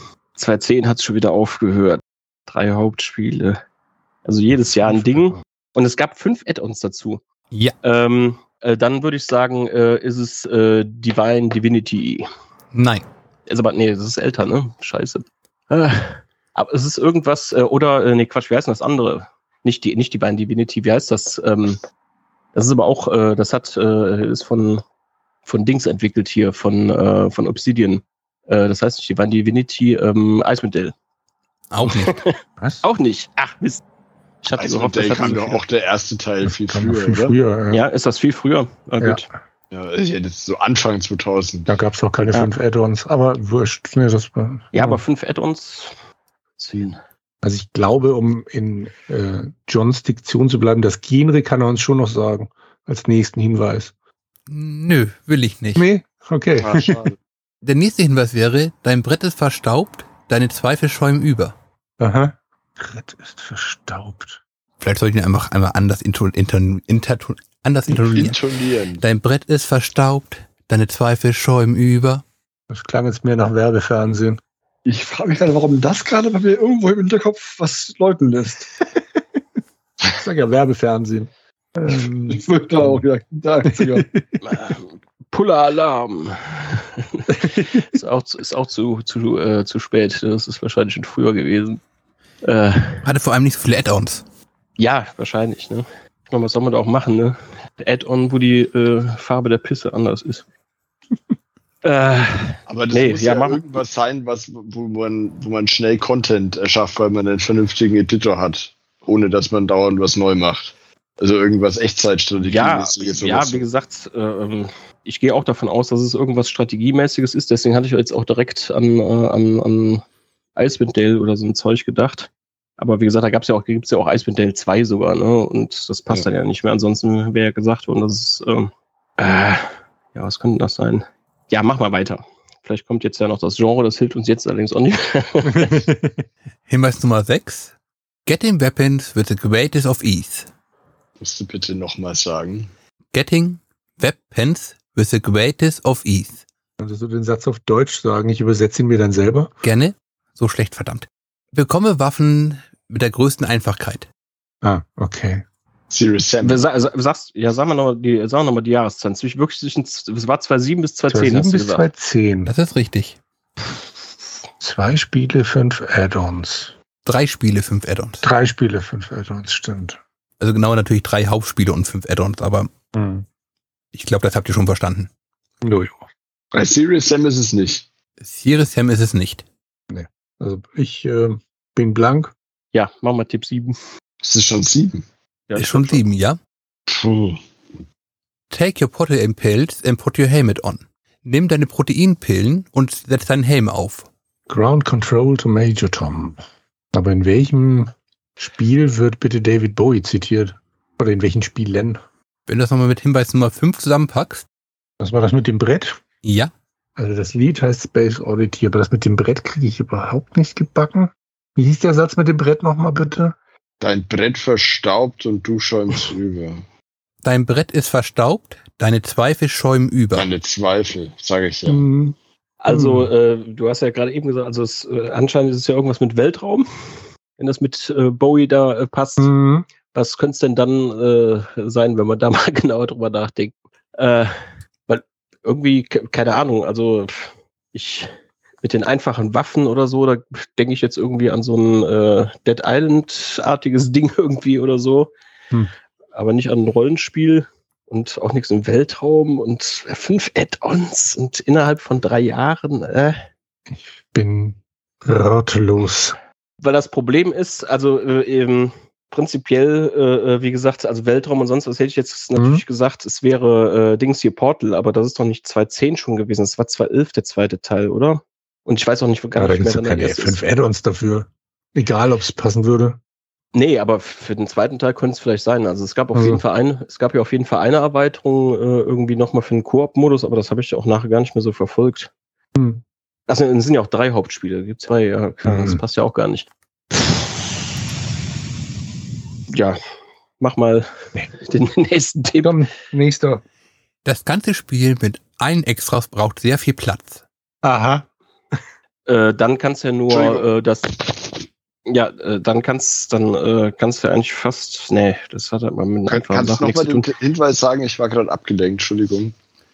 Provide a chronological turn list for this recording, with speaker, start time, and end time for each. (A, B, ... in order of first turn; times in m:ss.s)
0:00.4-0:03.6 A
0:04.2-0:07.2 A
0:04.8-0:05.4 B
0:07.8-0:12.3 A
0:12.7-0:13.0 C
0:13.5-0:21.8 A
0:22.6-0:24.8 A
0:25.4-0:30.9 A
0:31.7-0:32.2 C
0:31.9-0:33.8 A
0:34.4-0:35.6 A
0:34.6-0:37.4 D
0:36.4-0:37.8 B
0:37.7-0:39.3 A
0:39.0-0:39.3 B
0:39.7-0:41.7 D
0:41.7-0:45.0 B
0:44.7-0:45.9 A
0:46.6-0:47.0 A
0:47.4-0:53.9 B
0:54.5-0:55.9 C
0:55.8-0:57.1 B
0:56.6-0:57.2 D
0:57.6-1:01.6 C
1:02.0-1:04.4 B
1:04.8-1:08.4 C
1:07.9-1:09.0 D
1:09.0-1:12.2 C
1:12.7-1:14.4 B
1:14.8-1:18.7 E
1:20.1-1:23.0 B
1:21.9-1:24.1 E
1:23.7-1:24.2 B
1:24.4-1:31.8 A
1:27.4-1:27.8 B
1:32.4-1:33.0 A
1:33.0-1:34.2 C
1:34.8-1:40.4 A
1:41.8-1:43.6 A
1:42.7-1:53.7 D
1:52.4-2:00.0 A
2:00.6-2:09.6 A
2:10.1-2:15.8 A
2:15.5-2:16.2 B
2:16.7-2:17.7 C
2:18.3-2:20.5 C
2:21.2-2:22.7 D
2:23.1-2:26.4 C
2:26.8-2:29.5 B
2:29.6-2:34.1 C
2:34.6-2:35.4 B
2:35.9-2:36.6 D
2:36.4-2:41.9 A
2:41.1-2:42.5 B
2:42.5-2:43.2 C
2:44.6-2:46.7 B
2:47.0-2:48.2 C
2:48.2-2:50.0 B
2:50.4-2:52.7 C
2:52.9-2:53.2 B
2:53.9-2:55.1 C
2:55.6-2:56.0 B
2:56.5-2:57.9 D
2:58.2-2:59.4 C
2:59.9-3:02.3 B
3:02.7-3:03.7 A
3:04.2-3:05.0 D
3:05.5-3:06.0 A
3:05.6-3:06.4 C
3:06.9-3:07.4 D
3:08.5-3:14.1 C
3:14.5-3:16.4 B
3:16.9-3:22.0 B
3:22.5-3:24.5 C
3:25.0-3:26.0 B
3:26.2-3:26.5 C
3:27.0-3:33.4 B
3:33.8-3:36.6 D
3:37.2-3:40.3 C
3:40.1-3:41.8 D
3:41.7-3:42.2 B
3:42.6-3:46.7 A
3:42.7-3:43.1 B
3:47.4-3:49.3 A
3:49.2-3:49.7 B
3:49.9-3:54.3 A
3:54.9-4:05.1 A
4:06.2-4:13.2 A
4:13.7-4:16.2 B
4:16.6-4:30.4 A
4:22.4-4:22.6 B
4:29.4-4:33.0 B
4:33.5-4:42.1 A
4:36.1-4:36.4 B
4:42.6-4:42.8 B
4:43.3-4:47.1 A
4:45.4-4:45.8 B
4:49.5-4:49.8 A
4:50.4-4:52.6 A
4:52.4-4:53.4 B
4:54.0-4:57.2 C
4:57.6-4:58.0 B
4:59.1-5:07.1 A
5:00.1-5:00.5 D
5:06.1-5:09.4 D